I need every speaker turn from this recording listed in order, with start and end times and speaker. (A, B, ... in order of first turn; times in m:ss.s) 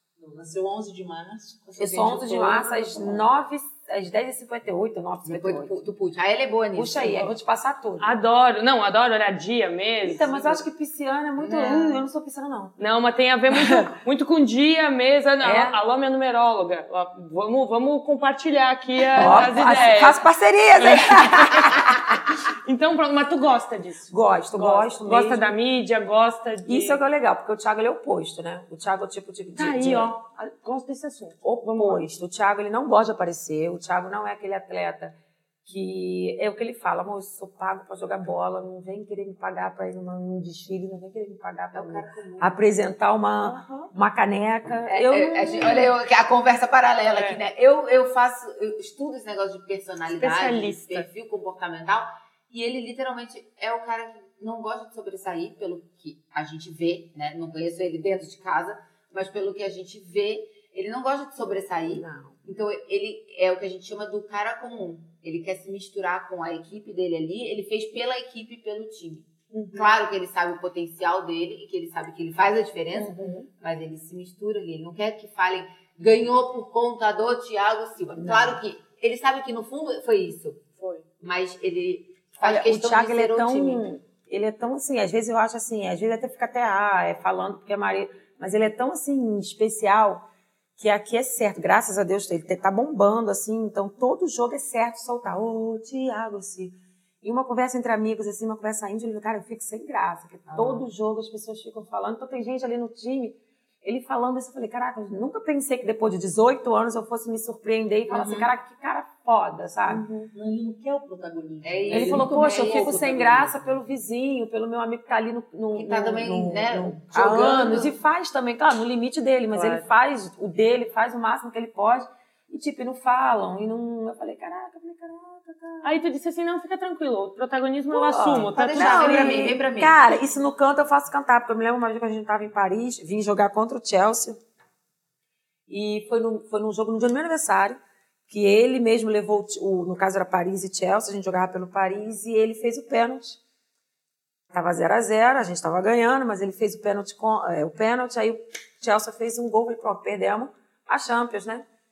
0:00.2-0:03.3 A
0:01.8-0:05.8 B
0:05.2-0:07.3 C
0:06.7-0:08.1 B
0:08.0-0:10.6 D
0:10.0-0:12.7 B
0:11.4-0:12.0 C
0:12.8-0:20.2 D
0:13.5-0:13.9 B
0:15.4-0:15.8 B
0:19.1-0:22.3 B
0:20.8-0:21.9 D
0:22.4-0:27.0 D
0:24.1-0:25.5 B
0:26.7-0:30.1 B
0:29.6-0:32.0 D
0:31.4-0:35.1 B
0:35.6-0:45.9 B
0:41.7-0:42.6 C
0:43.5-0:43.9 D
0:44.9-1:20.6 C
0:47.1-0:47.4 D
0:50.1-0:51.1 D
1:01.9-1:02.4 B
1:09.5-1:10.0 D
1:12.9-1:13.5 D
1:18.1-1:18.6 B
1:20.8-1:21.0 D
1:21.2-1:23.8 C
1:22.4-1:30.2 B
1:30.8-1:50.1 B
1:40.5-1:40.8 C
1:48.1-1:48.5 C
1:49.9-1:50.3 D
1:50.3-1:53.8 A
1:51.6-1:53.0 C
1:51.9-2:05.9 B
1:55.7-1:58.0 C
1:59.5-1:59.9 D
2:05.8-2:09.5 D
2:07.9-2:14.4 B
2:08.5-2:10.0 C
2:15.7-2:23.4 B
2:24.5-2:31.6 B